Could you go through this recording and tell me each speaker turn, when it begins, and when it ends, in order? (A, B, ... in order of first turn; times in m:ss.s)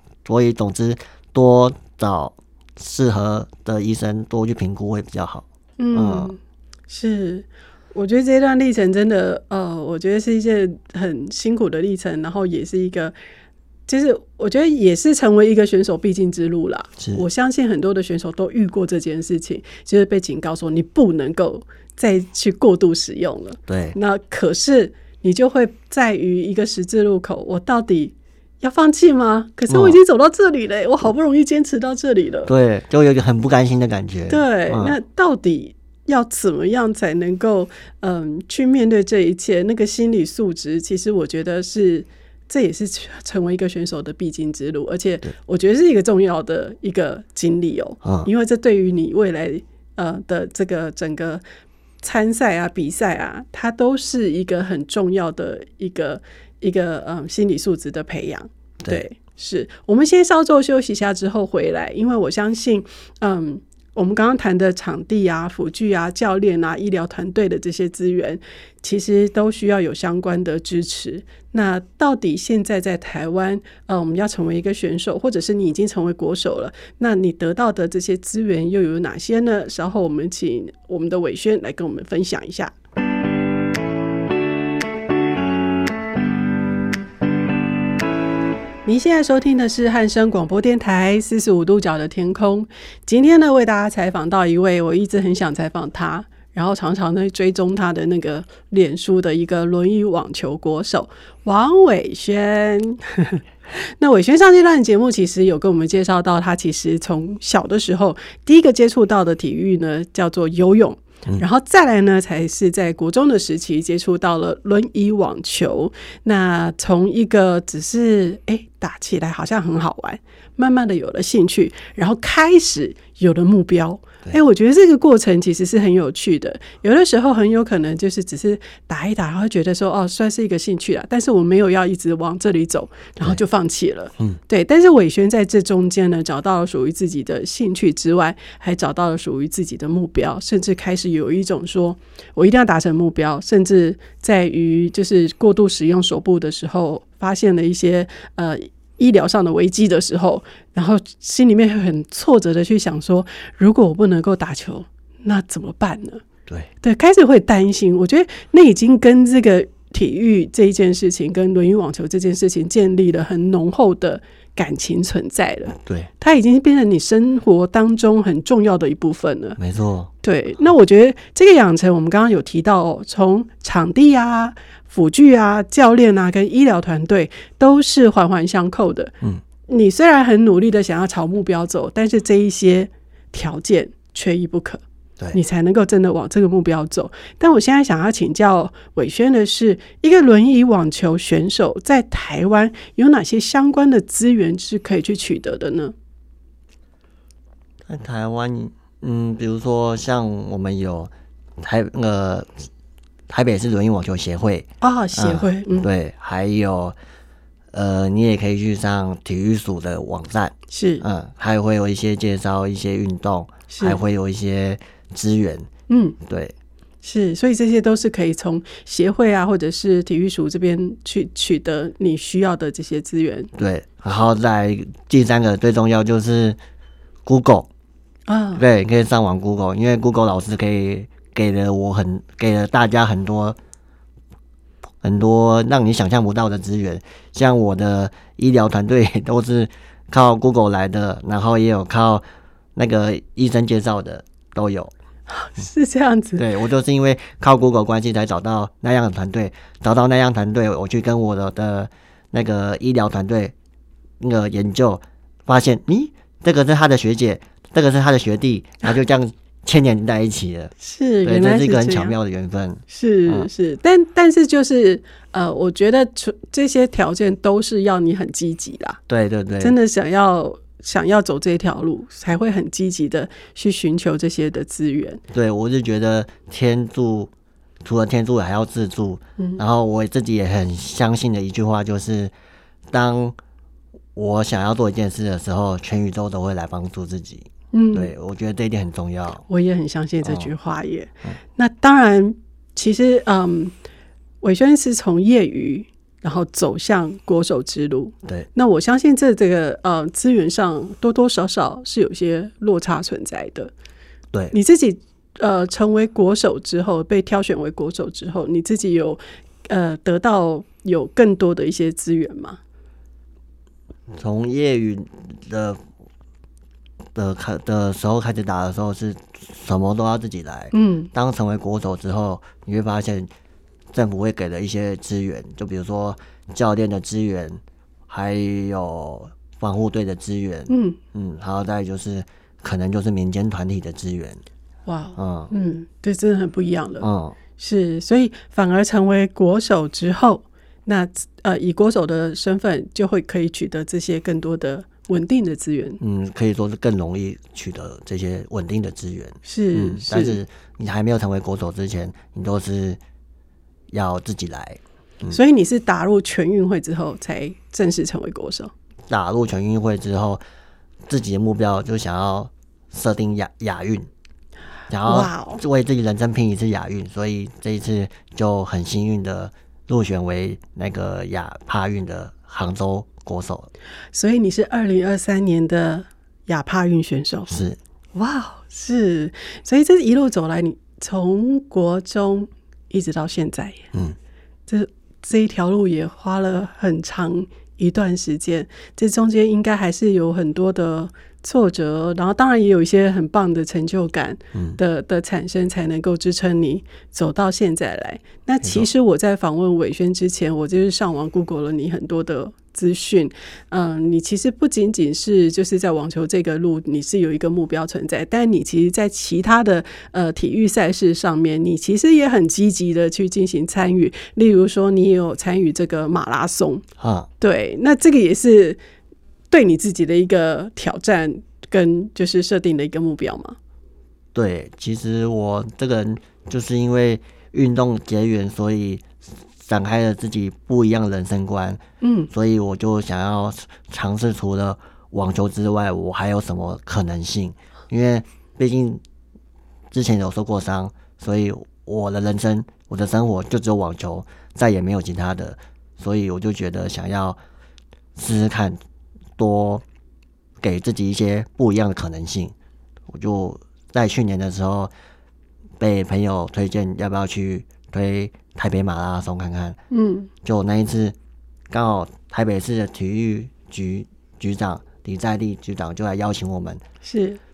0:00.2-0:06.3 A
0:05.8-0:06.4 B
0:06.9-0:13.1 B
0:13.9-0:32.5 B
0:17.0-0:17.2 A
0:23.7-0:24.0 A
0:29.7-0:30.0 A
0:32.5-0:35.0 A
0:34.3-0:51.4 B
0:48.0-0:48.3 A
0:52.0-1:22.7 B
1:28.8-2:36.2 B
2:36.8-2:49.6 B
2:45.8-2:46.1 A
2:49.6-2:50.1 A
2:50.2-2:59.1 B
2:59.7-3:04.8 B
3:05.3-3:15.9 B
3:17.8-3:22.6 A
3:23.3-3:27.0 A
3:24.8-3:25.9 B
3:27.7-3:35.7 A
3:30.7-3:31.0 B
3:33.7-3:34.0 B
3:35.9-3:36.2 B
3:36.2-3:36.5 A
3:37.0-3:43.5 B
3:43.6-3:46.6 A
3:47.2-3:47.7 A
3:48.3-3:48.6 B
3:48.6-3:53.6 A
3:55.0-4:02.2 A
4:02.8-4:04.9 A
4:05.3-4:06.4 B
4:06.4-4:13.5 A
4:14.2-4:20.7 A
4:20.8-4:22.1 B
4:21.2-4:23.5 A
4:22.9-4:29.0 B
4:29.1-4:29.8 A
4:29.6-4:35.2 B
4:35.3-4:37.3 A
4:37.8-4:42.3 A
4:42.9-4:43.4 A
4:44.1-4:49.4 A
4:47.7-4:48.1 B
4:49.5-4:53.7 B
4:50.2-4:50.5 A
4:54.4-5:03.7 B
5:04.5-5:12.6 B
5:14.1-5:15.8 A
5:17.1-5:23.3 A
5:20.7-5:21.1 B
5:23.9-5:34.4 A
5:30.7-5:31.0 B
5:34.8-5:37.0 B
5:35.2-5:35.5 A
5:37.0-5:37.4 A
5:37.6-5:46.0 B
5:46.0-5:53.0 A
5:49.4-5:50.4 B
5:53.9-5:55.4 A
5:55.3-5:58.7 B
5:59.1-6:00.4 A
6:01.1-6:04.1 A
6:04.9-6:13.7 A
6:05.0-6:05.6 B
6:14.1-6:17.6 B
6:17.5-6:17.8 A
6:18.1-6:23.9 B
6:24.7-6:56.8 B
6:34.5-6:34.8 A
6:38.6-6:38.9 A
6:57.0-6:57.3 A
6:57.4-6:58.8 B
6:59.5-7:03.6 B
7:04.3-7:09.1 A
7:09.6-7:19.0 A
7:12.0-7:12.3 B
7:19.9-7:27.4 A
7:28.2-7:28.8 A
7:29.4-7:29.8 A
7:30.6-7:32.5 A
7:33.1-7:34.9 A
7:35.8-7:39.8 A
7:39.9-7:40.3 B
7:40.4-7:41.1 A
7:41.7-7:46.8 A
7:47.0-7:47.4 B